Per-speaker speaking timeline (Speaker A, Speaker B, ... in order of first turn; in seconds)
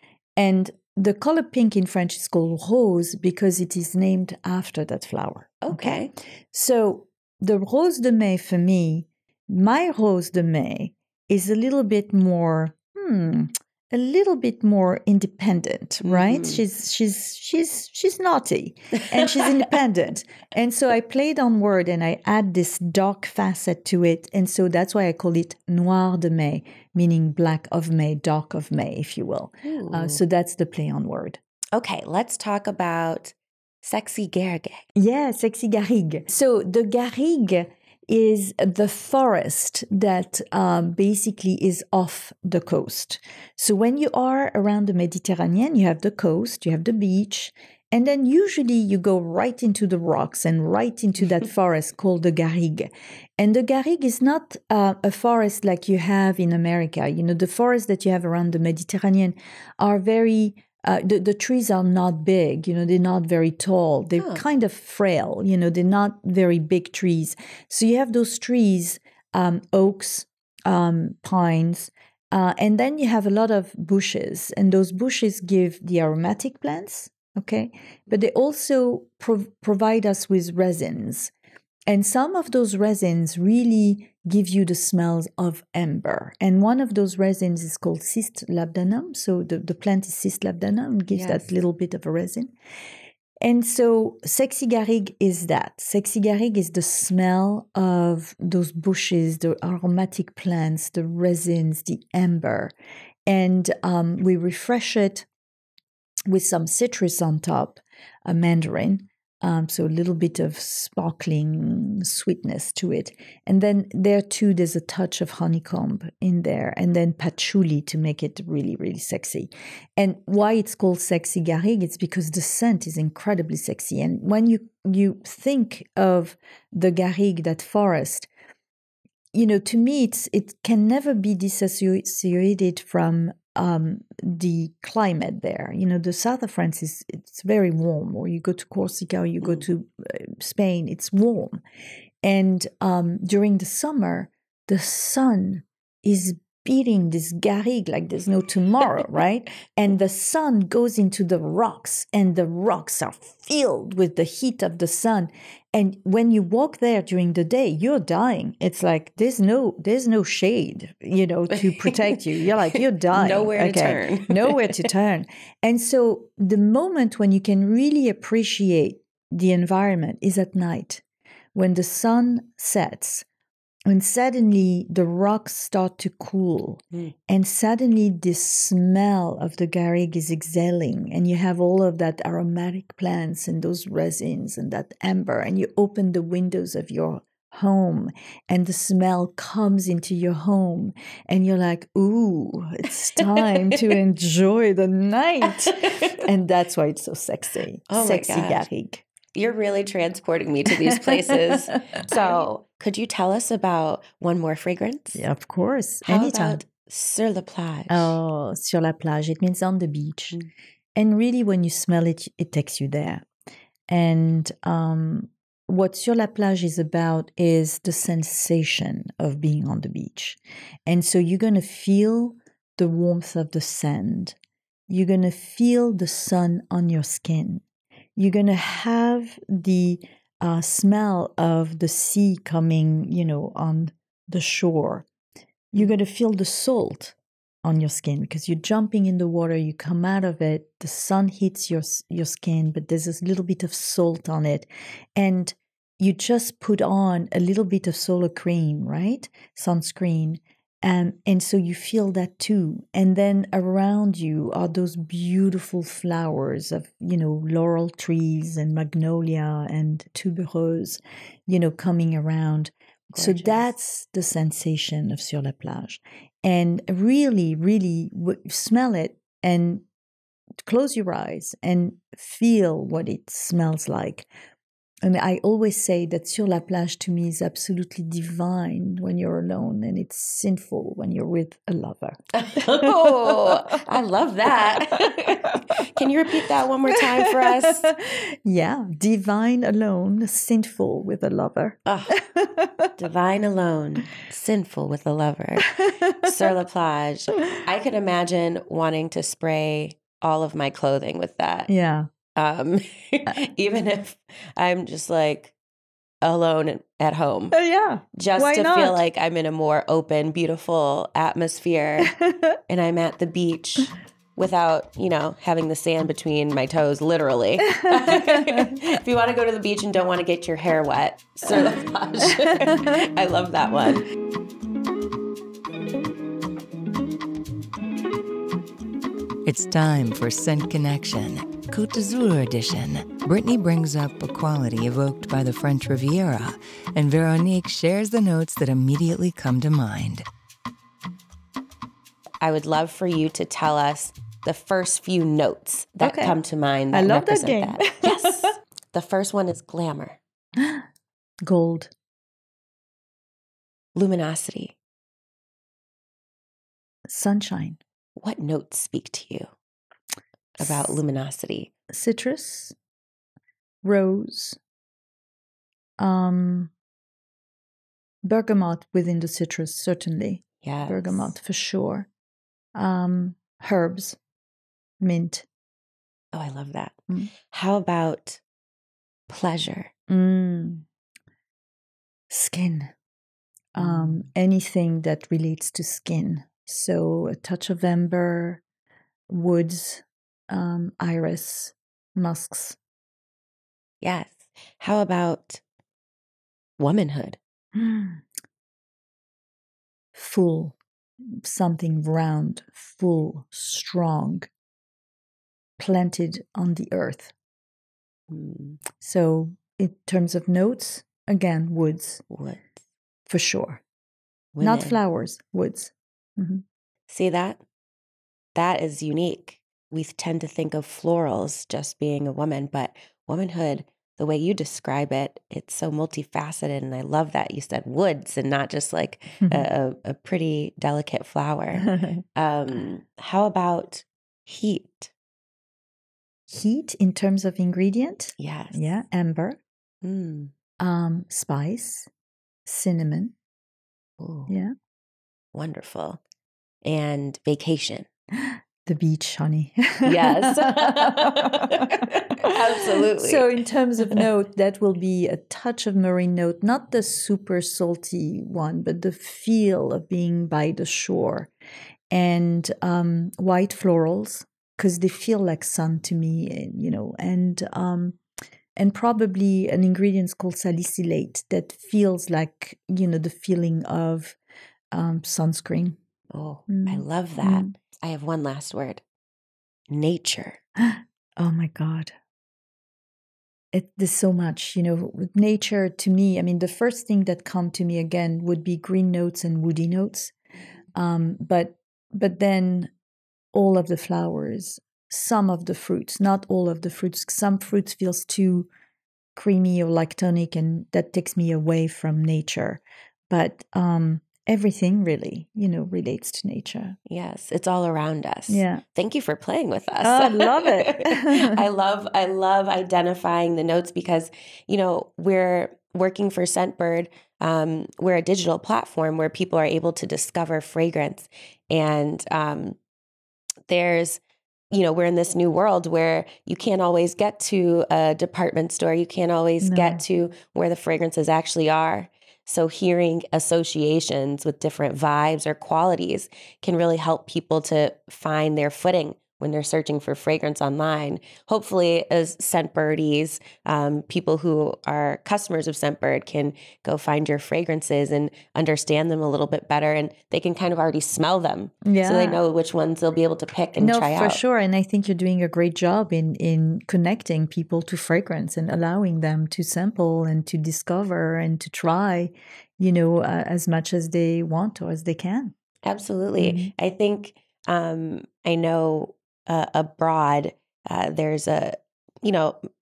Speaker A: 0.4-31.4, 34.9-81.3, 81.9-92.5, 93.4-102.7, 103.2-105.3, 106.3-128.3, 129.3-141.6, 142.2-171.0, 171.6-173.2, 173.9-199.0, 200.7-202.4, 205.1-206.6, 207.9-210.4, 210.9-213.3, 213.9-224.4, 224.9-227.6, 228.2-235.1, 235.7-269.8, 270.6-274.3, 275.0-283.8, 285.1-285.6, 286.9-292.9, 295.7-296.5, 301.7-302.1, 307.5-309.0, 312.0-312.6, 317.7-318.7, 322.4-322.7, 346.0-346.4, 346.9-348.5, 350.6-350.9, 351.4-351.9, 357.1-357.8, 361.9-362.7, 363.8-364.6, 366.0-366.7, 368.2-372.1, 372.8-374.2, 375.0-375.5, 380.1-380.8, 382.3-382.9, 383.7-388.6, 389.3-392.8, 397.7-398.2, 400.1-400.8, 401.4-404.5, 405.8-407.3, 409.0-412.2, 413.3-413.8, 414.6-416.6, 429.4-429.7, 431.8-432.2, 436.5-439.6, 440.8-442.1, 442.6-443.3, 444.5-444.7, 448.3-461.5, 462.1-468.2, 468.8-474.4, 474.9-476.0, 476.7-477.7, 480.8-482.1, 483.7-490.3, 490.9-492.9, 493.5-498.7, 499.3-507.0, 508.5-508.8, 510.0-511.6, 529.6-530.0, 551.8-552.4, 553.8-565.5, 566.4-566.7
Speaker B: 5.6-6.1, 16.0-16.6, 19.1-19.7, 29.6-30.2, 31.7-34.8, 64.2-64.4, 91.1-91.4, 161.6-162.2, 163.1-164.9, 193.2-193.9, 195.5-196.2, 197.9-198.7, 199.3-205.2, 206.1-208.2, 263.1-263.6, 282.3-287.9, 291.9-292.2, 293.0-301.7, 302.3-305.5, 306.2-307.6, 308.2-312.1, 312.7-324.1, 342.4-350.2, 353.9-354.8, 358.2-359.5, 360.6-361.7, 370.6-371.3, 376.3-377.0, 377.5-378.4, 379.3-379.9, 383.8-384.2, 394.0-395.6, 396.8-397.4, 408.3-408.8, 412.3-412.7, 414.6-415.0, 417.1-417.6, 418.6-435.1, 438.4-438.8, 440.0-440.5, 444.2-444.5, 445.5-446.2, 446.8-448.1, 450.1-453.5, 476.3-479.0, 479.9-480.6, 507.1-522.8, 523.7-524.2, 524.7-554.4, 565.8-572.6
Speaker C: 329.4-340.3